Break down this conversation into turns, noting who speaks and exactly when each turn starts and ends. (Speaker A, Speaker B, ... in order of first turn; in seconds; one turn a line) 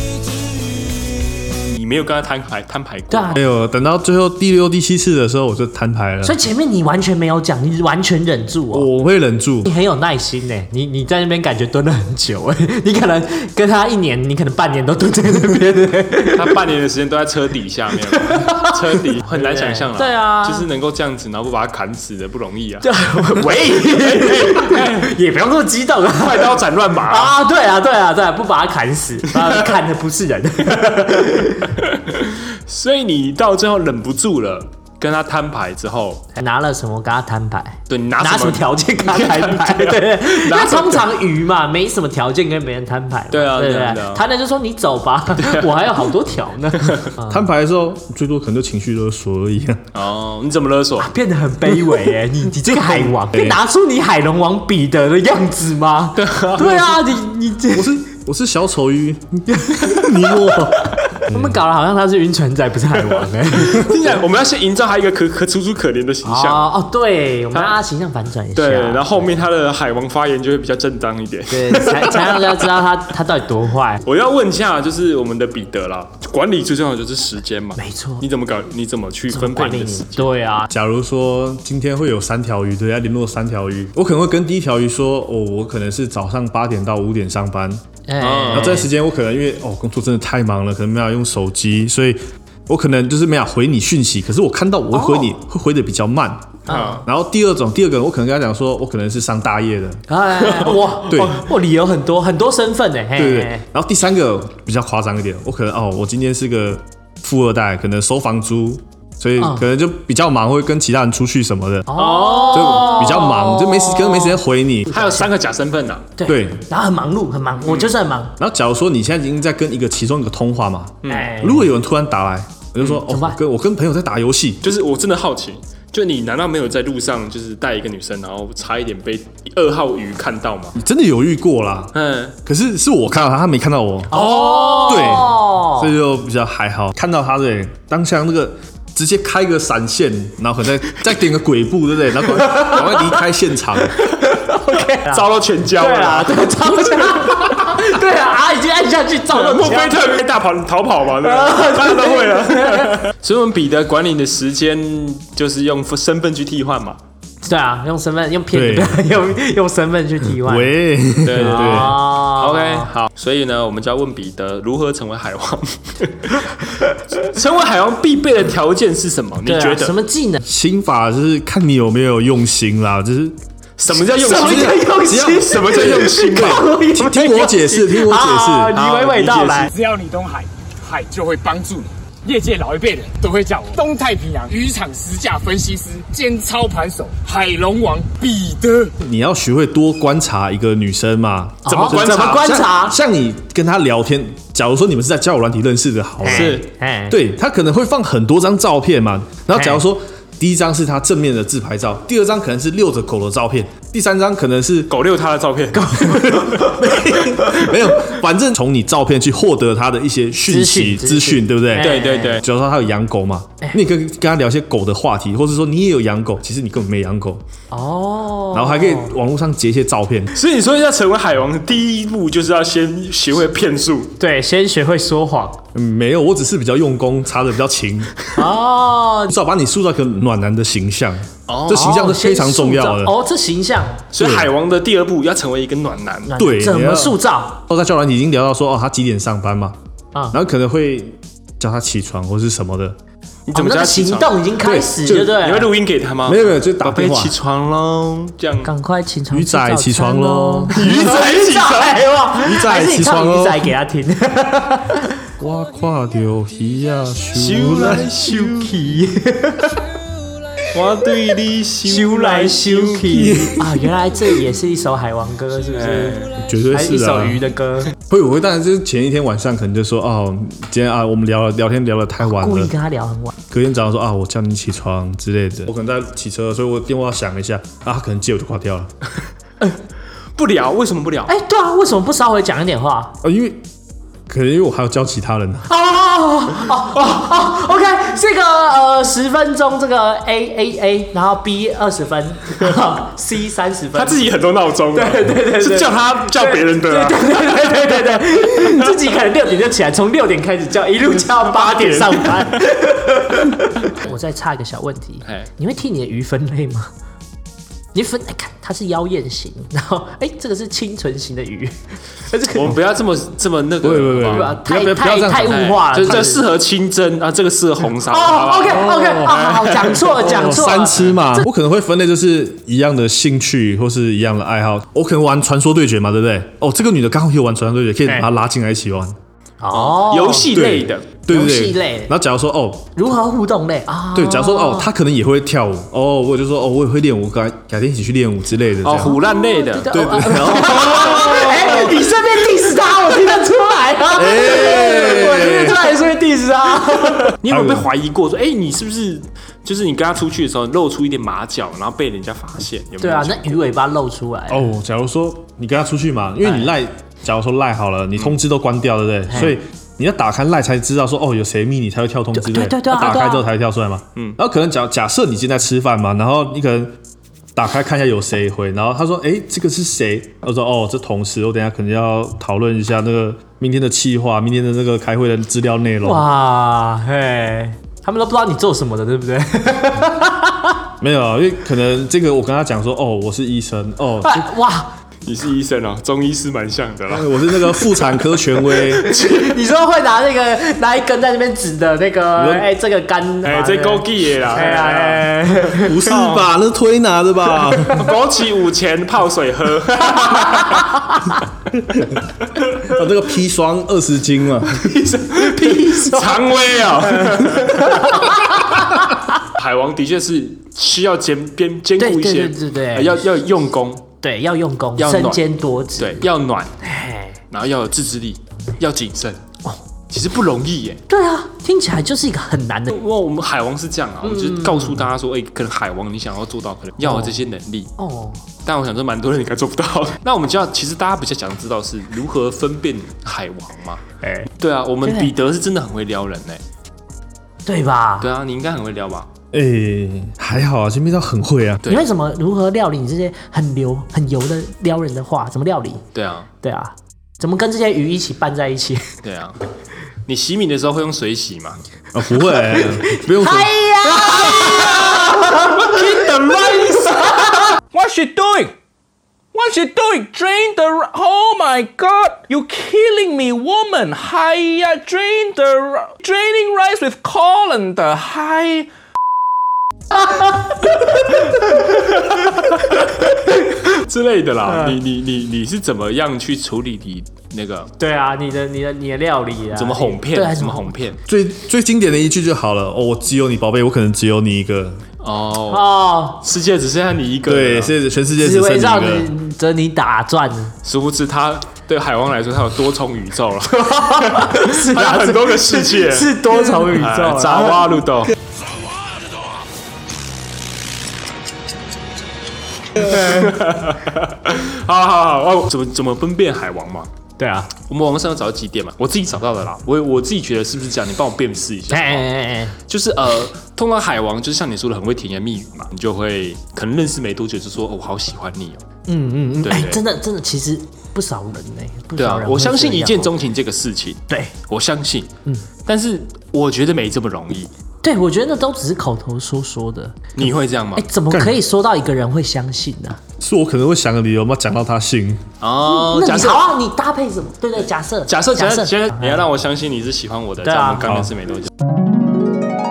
Speaker A: 1.6-3.4
Speaker B: 3.1-3.4
Speaker C: 3.4-6.4
Speaker B: 6.2-8.9
Speaker C: 8.7-9.7
Speaker B: 9.7-16.6
Speaker A: 16.3-25.1
Speaker B: 18.1-20.7
Speaker B: 22.8-31.8
Speaker A: 26.2-27.4
Speaker A: 31.8-36.2
Speaker B: 36.4-47.5
Speaker A: 37.9-41.0
Speaker A: 43.3-44.2
Speaker A: 45.4-45.7
Speaker C: 47.3-49.8
Speaker A: 49.9-51.1
Speaker B: 51.0-58.0
Speaker C: 52.8-53.6
Speaker A: 56.2-57.0
Speaker C: 57.7-61.6
Speaker B: 59.5-64.1
Speaker A: 63.6-66.7
Speaker B: 66.2-69.3
Speaker A: 68.5-72.6
Speaker B: 71.5-74.0
Speaker A: 74.0-80.3
Speaker B: 77.8-78.2
Speaker B: 79.3-80.7
Speaker C: 80.7-87.8
Speaker B: 88.1-88.9
Speaker A: 88.2-88.9
Speaker C: 88.5-100.0
Speaker B: 94.9-95.3
Speaker A: 96.7-97.0
Speaker B: 96.7-97.0
Speaker B: 100.1-103.6
Speaker C: 101.1-101.4
Speaker C: 103.2-115.0
Speaker B: 109.4-109.6
Speaker B: 111.9-115.3
Speaker A: 112.0-113.0
Speaker A: 114.9-116.1
Speaker B: 116.2-118.4
Speaker C: 116.3-116.6
Speaker A: 117.7-117.9
Speaker C: 118.4-124.6
Speaker A: 121.0-121.3
Speaker B: 121.1-121.7
Speaker B: 123.0-123.4
Speaker A: 124.6-130.8
Speaker C: 130.8-131.9
Speaker A: 131.9-132.4
Speaker C: 132.4-134.2
Speaker B: 134.1-135.9
Speaker A: 134.1-135.3
Speaker C: 134.8-143.9
Speaker B: 142.4-143.2
Speaker B: 144.2-150.0
Speaker A: 145.1-147.7
Speaker A: 149.3-157.0
Speaker B: 151.2-153.0
Speaker B: 157.4-162.9
Speaker C: 158.5-159.0
Speaker C: 160.4-162.0
Speaker A: 161.2-166.4
Speaker A: 167.1-170.0
Speaker B: 169.5-170.4
Speaker C: 170.4-173.4
Speaker A: 173.8-176.7
Speaker B: 174.0-179.7
Speaker C: 174.3-178.7
Speaker A: 178.7-179.7
Speaker D: 179.7-188.9
Speaker C: 189.0-204.9
Speaker A: 191.7-192.6
Speaker B: 191.7-193.0
Speaker B: 196.2-197.2
Speaker A: 196.3-196.7
Speaker B: 199.6-199.8
Speaker A: 204.9-206.5
Speaker B: 205.8-206.7
Speaker C: 206.4-217.4
Speaker B: 210.4-212.4
Speaker A: 211.8-212.4
Speaker B: 217.7-219.1
Speaker C: 218.5-220.3
Speaker A: 220.3-224.1
Speaker B: 224.2-225.6
Speaker C: 225.8-228.1
Speaker B: 228.3-229.3
Speaker C: 229.3-233.1
Speaker A: 231.5-232.0
Speaker B: 231.7-234.1
Speaker A: 234.1-236.3
Speaker C: 234.2-234.5
Speaker B: 236.3-237.6
Speaker C: 236.4-239.8
Speaker C: 240.3-243.0
Speaker A: 243.5-244.3
Speaker B: 243.5-245.7
Speaker C: 244.6-245.2
Speaker A: 245.1-248.7
Speaker C: 246.3-247.4
Speaker B: 248.6-255.2
Speaker C: 249.3-250.8
Speaker A: 250.7-252.1
Speaker C: 252.4-253.7
Speaker C: 255.4-258.1
Speaker A: 257.4-258.7
Speaker B: 257.9-259.8
Speaker A: 260.7-263.4
Speaker B: 261.9-267.9
Speaker C: 263.1-263.7
Speaker A: 265.7-266.3
Speaker C: 266.4-267.4
Speaker C: 268.1-272.7
Speaker B: 272.2-273.4
Speaker C: 273.5-278.9
Speaker A: 280.4-281.4
Speaker B: 281.3-283.2
Speaker C: 283.2-283.6
Speaker C: 284.3-285.7
Speaker B: 285.7-294.3
Speaker A: 293.9-297.3
Speaker B: 294.9-306.9
Speaker A: 301.4-302.6
Speaker B: 307.9-312.8
Speaker A: 312.5-314.5
Speaker C: 313.8-315.7
Speaker B: 314.2-316.4
Speaker A: 315.4-320.1
Speaker B: 318.1-321.4
Speaker C: 318.7-319.5
Speaker C: 320.2-329.2
Speaker B: 329.6-330.6
Speaker A: 329.7-331.1
Speaker C: 330.5-332.9
Speaker B: 331.3-332.1
Speaker B: 333.0-334.9
Speaker C: 334.1-339.2
Speaker A: 338.8-340.1
Speaker B: 339.0-347.4
Speaker C: 339.9-342.1
Speaker C: 344.1-345.9
Speaker A: 347.4-353.6
Speaker C: 347.5-347.9
Speaker B: 353.0-354.7
Speaker C: 354.5-367.0
Speaker B: 356.4-356.7
Speaker B: 362.4-363.5
Speaker C: 367.6-376.3
Speaker B: 376.0-380.8
Speaker C: 381.0-384.4
Speaker B: 384.2-384.9
Speaker A: 385.2-387.3
Speaker C: 387.1-389.1
Speaker B: 388.8-396.0
Speaker C: 392.4-392.7
Speaker A: 393.4-395.3
Speaker C: 395.8-398.0
Speaker A: 396.1-396.3
Speaker A: 397.9-401.0
Speaker C: 402.8-404.9
Speaker A: 404.9-408.5
Speaker B: 405.3-409.0
Speaker A: 409.5-414.1
Speaker B: 412.0-413.2
Speaker B: 414.2-416.3
Speaker A: 415.0-415.4
Speaker A: 416.0-416.7
Speaker B: 416.8-417.4
Speaker A: 417.5-419.4
Speaker A: 420.1-421.0
Speaker B: 421.1-423.0
Speaker A: 422.9-427.9
Speaker B: 424.2-425.1
Speaker B: 427.0-427.4
Speaker B: 428.0-428.4
Speaker A: 428.6-434.0
Speaker B: 434.2-434.5
Speaker A: 434.6-436.6
Speaker B: 435.0-435.3
Speaker B: 437.7-438.3
Speaker A: 438.2-439.3
Speaker C: 439.5-441.8
Speaker B: 441.9-446.1
Speaker A: 446.1-446.5
Speaker B: 446.6-449.1
Speaker A: 449.2-449.6
Speaker A: 450.3-451.8
Speaker C: 452.1-453.8
Speaker B: 452.7-456.3
Speaker E: 455.9-457.1
Speaker B: 457.1-457.6
Speaker E: 457.9-458.8
Speaker E: 459.5-468.9
Speaker A: 472.1-473.1
Speaker A: 473.7-477.9
Speaker B: 478.0-481.0
Speaker A: 479.8-481.2
Speaker C: 481.3-485.0
Speaker A: 485.2-487.9
Speaker B: 485.7-486.4
Speaker C: 487.5-489.3
Speaker B: 488.4-490.8
Speaker A: 490.8-498.3
Speaker B: 493.8-498.0
Speaker A: 503.0-507.1
Speaker B: 507.4-507.7
Speaker A: 507.8-512.3
Speaker B: 511.9-512.8
Speaker A: 512.8-518.8
Speaker B: 519.1-523.3
Speaker A: 519.6-520.0
Speaker A: 522.2-525.3
Speaker A: 525.9-527.7
Speaker B: 528.0-530.3
Speaker A: 530.4-531.1
Speaker B: 531.0-533.2
Speaker C: 531.3-531.6
Speaker C: 533.4-535.4
Speaker A: 535.6-536.7
Speaker B: 535.8-539.5
Speaker A: 538.3-541.7
Speaker B: 540.6-541.0